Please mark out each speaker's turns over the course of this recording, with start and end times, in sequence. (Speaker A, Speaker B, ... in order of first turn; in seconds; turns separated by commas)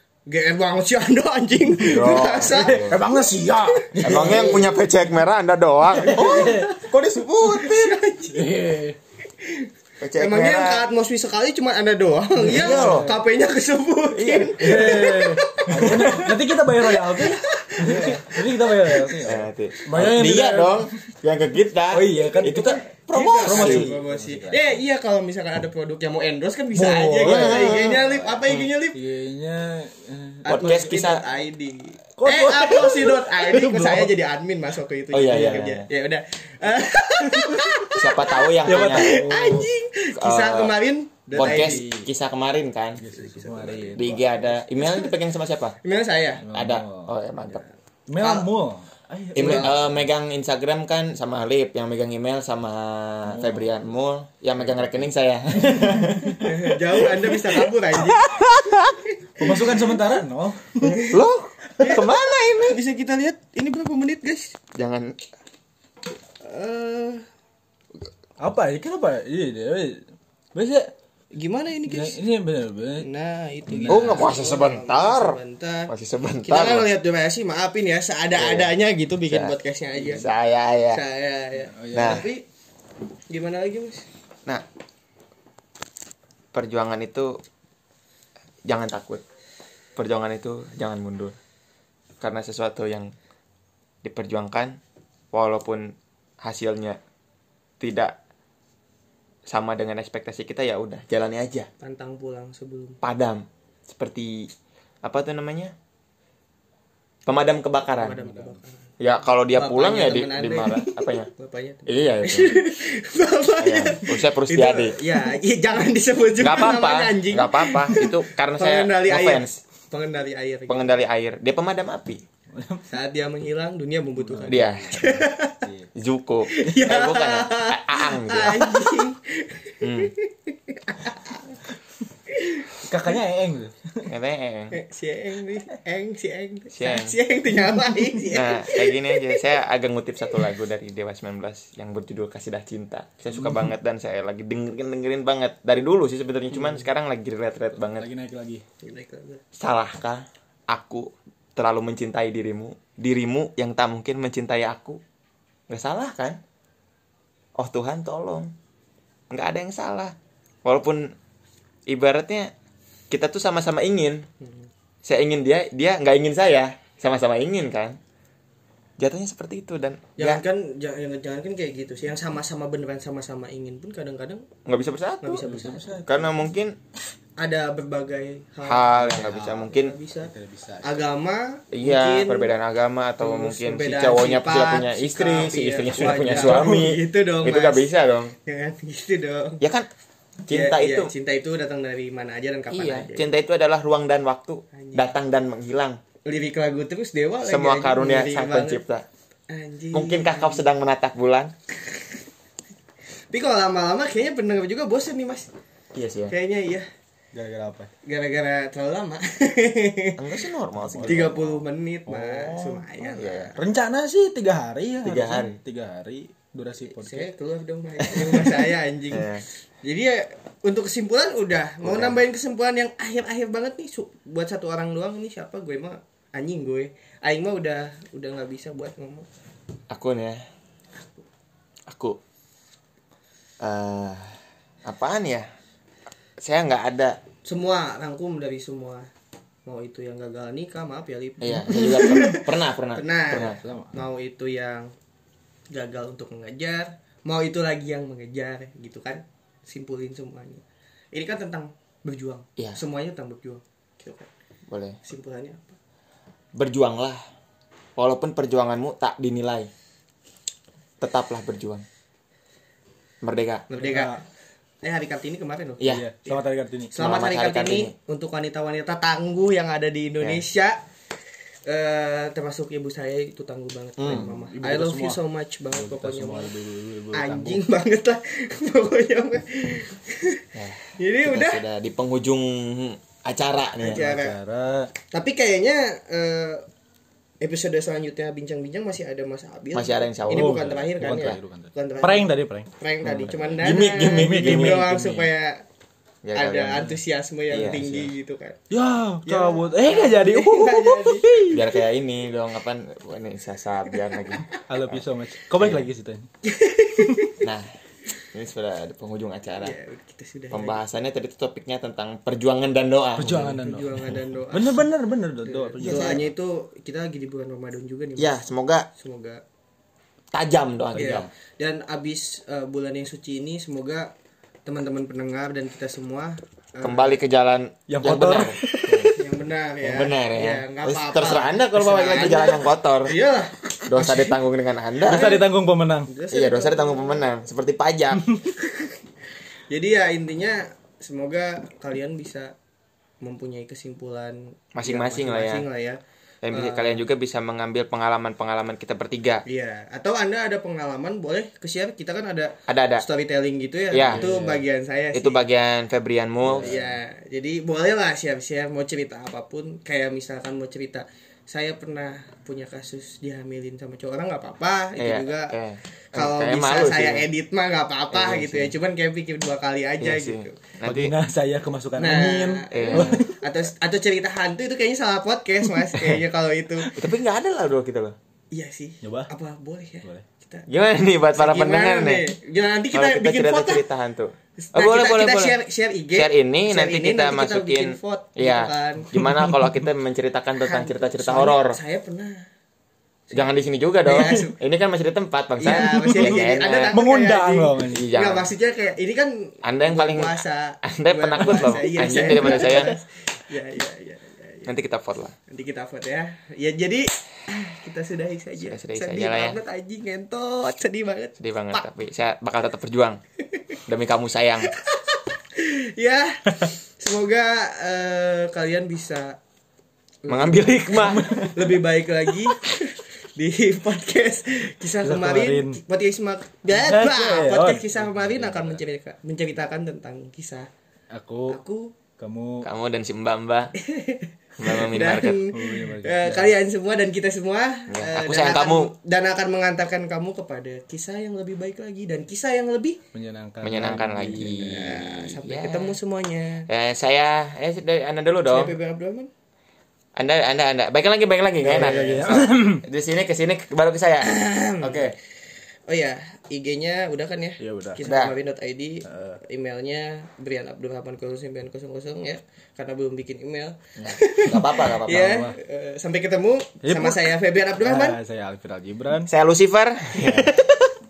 Speaker A: 0.3-4.7, Speaker B: 1.8-3.0, Speaker C: 2.4-4.7, Speaker B: 4.0-8.0, Speaker C: 5.9-6.7, Speaker A: 5.9-6.9, Speaker A: 7.4-8.5, Speaker C: 8.3-9.0, Speaker A: 9.4-16.2, Speaker B: 10.0-10.8, Speaker C: 12.4-13.2, Speaker B: 12.4-13.1, Speaker B: 14.1-15.2, Speaker C: 14.6-20.9, Speaker B: 15.7-16.4, Speaker A: 16.8-19.2, Speaker B: 19.2-23.9, Speaker C: 21.9-24.7, Speaker A: 22.4-29.0, Speaker C: 26.7-28.4, Speaker B: 27.2-28.7, Speaker C: 28.9-31.0, Speaker A: 30.4-41.8, Speaker B: 30.5-31.2, Speaker C: 32.1-34.1, Speaker B: 35.1-35.8, Speaker C: 35.3-35.7, Speaker B: 37.9-39.2, Speaker C: 38.6-39.7, Speaker B: 40.2-40.7, Speaker C: 41.4-42.1, Speaker B: 41.4-43.0, Speaker C: 43.0-44.4, Speaker A: 43.1-45.1, Speaker B: 44.0-45.8, Speaker A: 45.8-46.4, Speaker C: 46.4-47.1, Speaker B: 46.5-47.6, Speaker A: 47.5-48.5, Speaker C: 48.1-50.1, Speaker B: 49.3-59.0, Speaker A: 49.4-49.7, Speaker C: 53.2-53.8, Speaker C: 54.6-56.5, Speaker A: 56.4-58.3, Speaker C: 59.4-61.0, Speaker B: 60.9-62.8, Speaker A: 61.8-64.6, Speaker B: 64.7-65.2, Speaker A: 66.4-67.2, Speaker C: 68.4-70.9, Speaker A: 71.3-72.2, Speaker C: 71.9-73.1, Speaker A: 73.0-75.9, Speaker C: 73.7-74.3, Speaker B: 73.9-75.4, Speaker B: 75.9-76.9, Speaker A: 76.4-80.3, Speaker B: 78.3-78.7, Speaker B: 79.3-79.5, Speaker B: 80.0-81.0, Speaker A: 80.9-82.5, Speaker C: 81.6-82.3, Speaker B: 81.9-82.2, Speaker A: 83.3-84.1, Speaker B: 86.5-87.4, Speaker B: 88.7-89.2, Speaker B: 90.0-91.3, Speaker B: 92.2-93.1, Speaker B: 94.0-94.8, Speaker B: 95.3-97.0, Speaker B: 97.8-98.2, Speaker B: 99.5-101.7, Speaker A: 101.8-103.0, Speaker B: 103.0-104.5, Speaker B: 105.0-105.7, Speaker B: 107.2-108.2, Speaker A: 107.9-108.8, Speaker C: 108.3-108.5, Speaker B: 109.0-111.3, Speaker A: 109.5-121.0, Speaker B: 111.9-112.6, Speaker B: 113.6-115.0, Speaker B: 116.4-119.6, Speaker B: 120.7-122.2, Speaker C: 122.5-122.9, Speaker A: 122.9-125.6, Speaker C: 124.2-125.9, Speaker B: 124.5-125.0, Speaker B: 125.9-129.0, Speaker A: 126.5-131.7, Speaker B: 129.8-130.1, Speaker A: 132.3-132.9, Speaker C: 132.8-134.1, Speaker B: 134.1-134.8, Speaker A: 134.7-139.4, Speaker B: 136.7-137.1, Speaker C: 137.8-138.2, Speaker B: 138.3-148.1, Speaker C: 143.3-143.7, Speaker C: 147.8-148.6, Speaker A: 148.8-149.4, Speaker B: 149.6-155.0, Speaker B: 155.7-156.4, Speaker B: 157.6-158.5, Speaker B: 159.3-161.1, Speaker B: 161.9-162.5, Speaker B: 163.1-164.2, Speaker A: 164.4-164.7, Speaker B: 165.0-168.0, Speaker B: 169.0-170.4, Speaker A: 170.2-174.5, Speaker B: 174.7-175.4, Speaker A: 175.2-176.0, Speaker C: 175.4-176.4, Speaker B: 176.1-176.8, Speaker A: 177.4-180.3, Speaker B: 178.7-179.9, Speaker C: 179.0-181.0, Speaker A: 180.8-182.5, Speaker B: 181.7-188.3, Speaker A: 183.2-187.9, Speaker C: 186.0-186.9, Speaker A: 188.4-189.6, Speaker B: 189.6-189.9, Speaker B: 190.4-191.1, Speaker A: 190.5-193.2, Speaker B: 192.7-196.0, Speaker A: 194.7-195.1, Speaker A: 196.2-198.8, Speaker B: 197.4-199.0, Speaker A: 199.5-200.7, Speaker B: 199.9-201.5, Speaker A: 203.3-205.5, Speaker B: 205.9-206.3, Speaker A: 206.3-206.9, Speaker C: 207.3-207.9, Speaker A: 208.0-210.4, Speaker B: 210.2-211.6, Speaker C: 210.7-211.4, Speaker A: 211.0-213.6, Speaker C: 212.1-213.0, Speaker B: 213.1-213.5, Speaker C: 213.6-217.3, Speaker B: 215.0-215.6, Speaker A: 216.9-229.3, Speaker C: 218.0-218.7, Speaker B: 219.1-219.4, Speaker B: 221.8-222.2, Speaker B: 229.9-230.4, Speaker B: 231.9-232.2, Speaker B: 233.6-235.5, Speaker B: 236.4-237.2, Speaker A: 237.4-239.1, Speaker A: 239.7-244.9, Speaker B: 241.4-243.6, Speaker C: 243.4-244.0, Speaker A: 245.7-254.3, Speaker B: 254.7-255.0, Speaker A: 255.0-255.8, Speaker B: 256.5-257.2, Speaker B: 258.0-259.7, Speaker B: 261.0-261.8, Speaker B: 263.2-263.7, Speaker A: 263.7-264.2, Speaker C: 263.7-264.2, Speaker A: 264.8-270.8, Speaker C: 265.8-266.9, Speaker B: 267.0-267.9, Speaker A: 271.6-276.5, Speaker B: 274.0-274.3, Speaker C: 274.1-277.6, Speaker A: 277.1-281.6, Speaker B: 280.5-284.1, Speaker C: 283.8-284.9, Speaker A: 283.8-284.4, Speaker A: 285.1-286.6, Speaker A: 287.4-295.6, Speaker B: 289.7-290.6, Speaker C: 290.3-293.6, Speaker B: 293.6-294.9, Speaker C: 294.2-295.3, Speaker B: 296.2-296.9, Speaker A: 296.3-298.6, Speaker B: 297.5-298.1, Speaker C: 298.7-301.7, Speaker A: 299.2-301.4, Speaker B: 301.5-305.0, Speaker C: 304.7-306.3, Speaker B: 305.6-305.9, Speaker A: 306.4-307.4, Speaker C: 307.0-307.3, Speaker B: 308.2-309.7, Speaker A: 309.6-310.8, Speaker B: 310.5-313.6, Speaker C: 313.1-316.2, Speaker A: 313.6-314.9, Speaker A: 315.4-318.4, Speaker B: 315.8-316.2, Speaker B: 318.2-318.9, Speaker A: 318.9-319.4, Speaker B: 320.3-321.3, Speaker C: 320.9-321.3, Speaker A: 320.9-324.1, Speaker A: 324.6-327.2, Speaker B: 326.8-329.2, Speaker C: 327.9-329.1, Speaker A: 329.1-334.4, Speaker B: 329.8-333.2, Speaker B: 333.9-335.4, Speaker C: 335.0-336.1, Speaker A: 335.1-335.4, Speaker A: 336.1-337.2, Speaker B: 336.3-338.4, Speaker A: 339.7-342.5, Speaker A: 343.2-346.0, Speaker B: 344.7-345.6, Speaker B: 346.4-349.4, Speaker A: 346.5-347.0, Speaker A: 349.4-355.4, Speaker B: 352.7-353.0, Speaker B: 353.9-354.3, Speaker C: 354.0-354.6, Speaker B: 355.1-356.7, Speaker C: 356.4-357.0, Speaker A: 356.5-365.5, Speaker B: 365.0-367.3, Speaker A: 366.1-370.6, Speaker B: 368.1-368.7, Speaker B: 370.0-371.1, Speaker C: 370.8-373.5, Speaker A: 372.0-376.9, Speaker B: 372.7-373.2, Speaker C: 376.8-377.1, Speaker B: 376.9-378.1, Speaker A: 378.5-380.7, Speaker C: 379.0-379.3, Speaker B: 380.7-382.3, Speaker A: 381.3-383.8, Speaker B: 382.9-385.6, Speaker A: 384.6-389.2, Speaker B: 386.1-391.8, Speaker C: 389.1-389.8, Speaker A: 390.6-392.5, Speaker B: 393.3-397.0, Speaker A: 394.0-394.6, Speaker C: 394.1-394.4, Speaker A: 395.6-404.7, Speaker C: 395.6-398.1, Speaker B: 397.9-398.5, Speaker B: 399.6-403.0, Speaker C: 401.4-402.7, Speaker B: 404.6-405.4, Speaker A: 405.5-411.9, Speaker B: 408.6-409.6, Speaker B: 411.4-413.2, Speaker B: 413.9-414.7, Speaker A: 414.6-419.4, Speaker A: 420.2-430.7, Speaker B: 420.3-421.4, Speaker C: 420.9-421.8, Speaker C: 425.0-425.8, Speaker C: 426.7-428.8, Speaker C: 431.1-431.6, Speaker A: 431.5-431.9, Speaker C: 432.2-432.7, Speaker B: 432.6-433.8, Speaker A: 433.8-443.0, Speaker B: 434.6-435.4, Speaker C: 435.5-436.5, Speaker B: 437.9-438.9, Speaker C: 443.1-445.4, Speaker B: 443.6-446.0, Speaker A: 444.6-446.7, Speaker B: 446.7-448.7, Speaker A: 448.5-449.3, Speaker B: 450.1-455.1, Speaker C: 451.6-452.8, Speaker A: 454.2-455.1, Speaker A: 455.9-468.2, Speaker C: 457.6-458.1, Speaker B: 458.0-458.3, Speaker C: 459.0-459.4, Speaker B: 464.0-465.4, Speaker C: 464.8-465.6, Speaker C: 466.8-469.3, Speaker B: 469.3-470.6, Speaker A: 470.1-470.7